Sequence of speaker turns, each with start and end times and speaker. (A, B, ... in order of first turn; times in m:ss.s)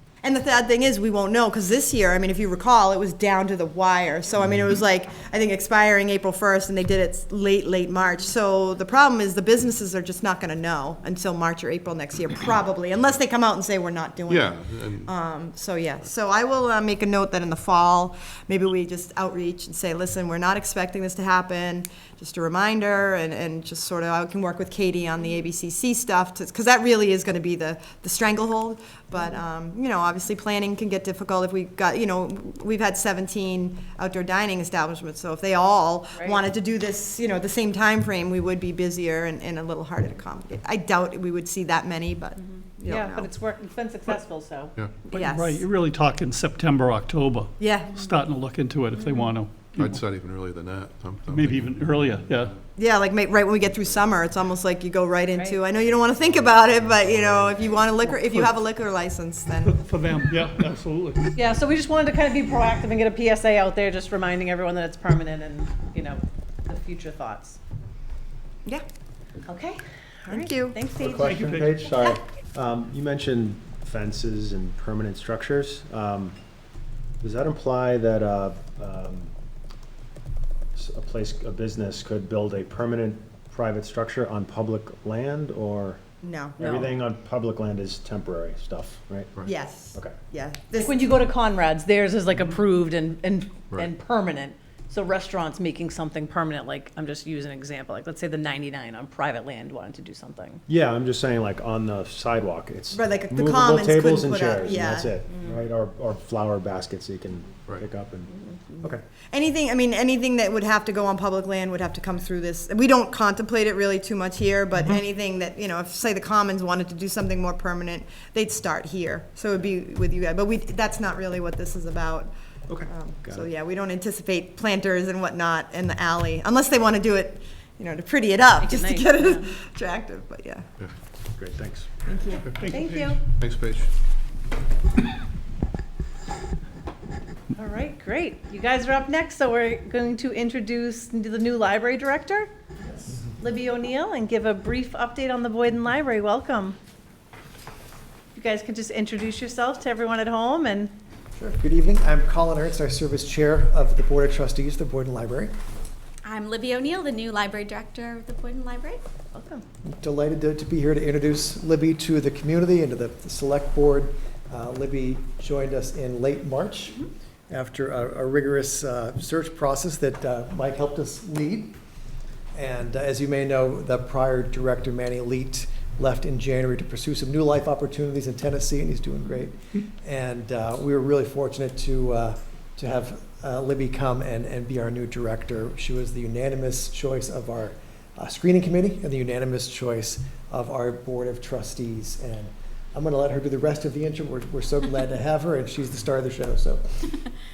0:00.2-0:43.3 A
0:14.3-0:15.1 B
0:36.1-0:36.4 C
0:42.8-0:44.7 C
0:44.8-0:45.1 B
0:45.1-0:45.6 A
0:45.1-0:50.0 D
0:47.6-0:48.0 A
0:49.0-0:49.3 C
0:49.8-0:52.6 B
0:51.3-0:52.5 D
0:52.8-0:59.8 A
0:55.3-0:55.6 C
0:58.2-0:58.5 D
0:59.6-1:01.3 D
1:01.3-1:07.6 C
1:09.5-1:11.3 C
1:10.3-1:10.8 A
1:11.0-1:16.4 E
1:11.2-1:11.9 D
1:17.2-1:19.3 E
1:20.7-1:26.0 E
1:26.2-1:26.8 A
1:26.6-1:29.3 E
1:26.6-1:27.0 C
1:29.4-1:31.1 A
1:30.8-1:40.6 C
1:40.7-1:49.0 E
1:42.9-1:45.1 A
1:49.3-2:02.3 A
2:02.7-2:03.5 E
2:02.9-2:10.6 A
2:08.6-2:09.5 C
2:11.4-2:11.9 E
2:12.0-2:12.4 A
2:12.4-2:13.9 B
2:12.5-2:12.8 D
2:12.7-2:13.2 C
2:17.5-2:22.5 C
2:23.4-2:26.8 C
2:28.3-2:30.9 C
2:31.4-2:35.5 F
2:36.2-2:39.0 G
2:39.3-2:39.6 C
2:39.8-2:51.7 F
2:52.5-3:17.0 F